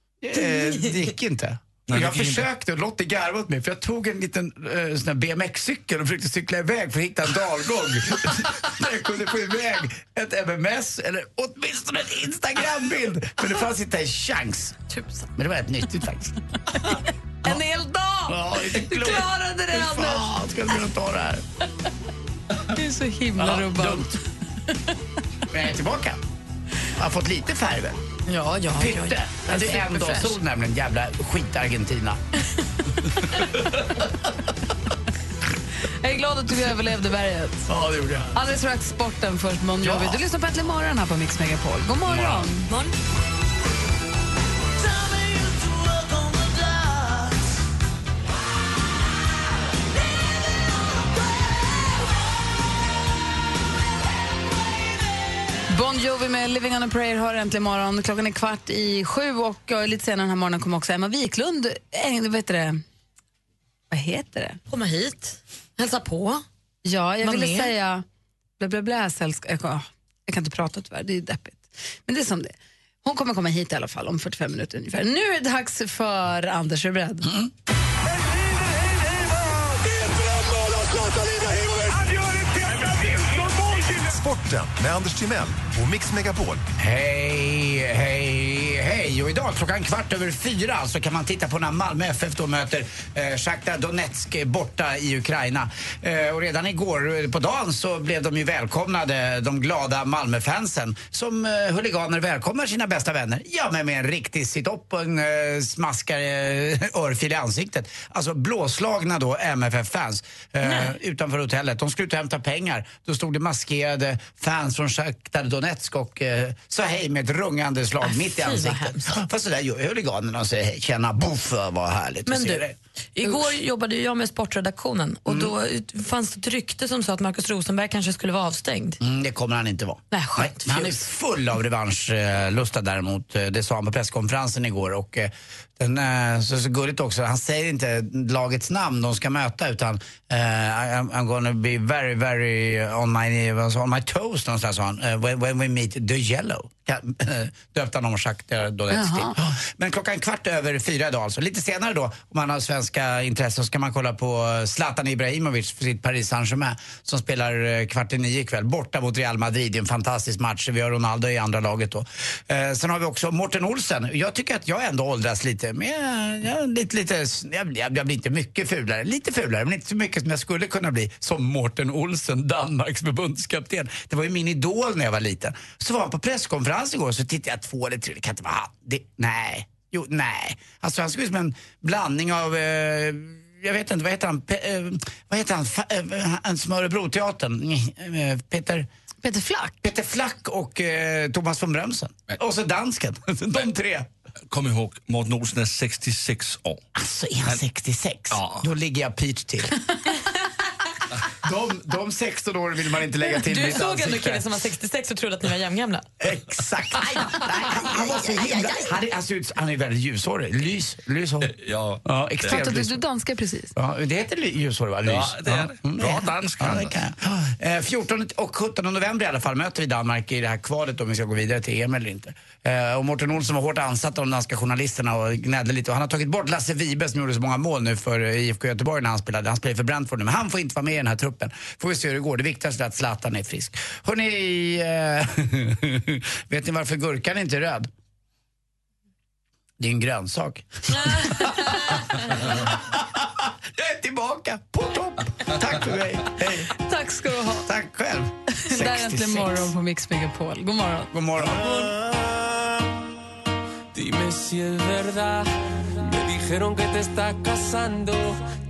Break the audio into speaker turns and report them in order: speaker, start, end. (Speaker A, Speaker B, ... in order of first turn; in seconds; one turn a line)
Speaker A: 0.2-14.8
Speaker B: 1.9-2.5
Speaker C: 14.9-15.3
Speaker A: 15.3-16.9
Speaker D: 17.4-20.3
Speaker A: 18.3-21.4
Speaker D: 22.7-24.2
Speaker A: 23.4-24.1
Speaker A: 25.5-26.2
Speaker A: 26.9-28.0
Speaker C: 28.3-30.2
Speaker A: 28.7-32.2
Speaker D: 36.0-37.7
Speaker A: 37.7-38.3
Speaker D: 38.3-42.7
Speaker A: 39.8-40.2
Speaker A: 42.1-42.5
Speaker C: 42.7-42.9
Speaker D: 55.7-62.8
Speaker D: 63.9-64.6
Speaker C: 64.7-66.4
Speaker D: 66.8-68.0
Speaker C: 67.2-67.7
Speaker D: 68.6-77.3
Speaker E: 81.9-86.6
Speaker A: 86.8-122.7
Speaker C: 110.6-110.9
Speaker C: 118.0-119.1
Speaker C: 122.3-122.6
Speaker C: 123.2-129.0
Speaker A: 125.3-125.5
Speaker A: 129.0-188.9
Speaker C: 130.1-131.0
Speaker D: 148.9-149.4
Speaker D: 189.2-189.8
Speaker A: 189.8-194.1
Speaker B: 194.5-196.8
Speaker A: 196.9-199.8
Speaker B: 198.3-198.6
Speaker A: 201.4-204.4
Speaker C: 203.4-206.1
Speaker A: 206.2-211.5
Speaker B: 211.4-212.6
Speaker A: 212.0-213.0
Speaker D: 212.4-213.7
Speaker A: 213.7-237.9
Speaker B: 215.0-216.9
Speaker A: 239.8-246.7
Speaker D: 246.8-247.7
Speaker A: 247.7-249.7
Speaker D: 248.6-251.1
Speaker A: 251.1-251.7
Speaker F: 253.9-258.4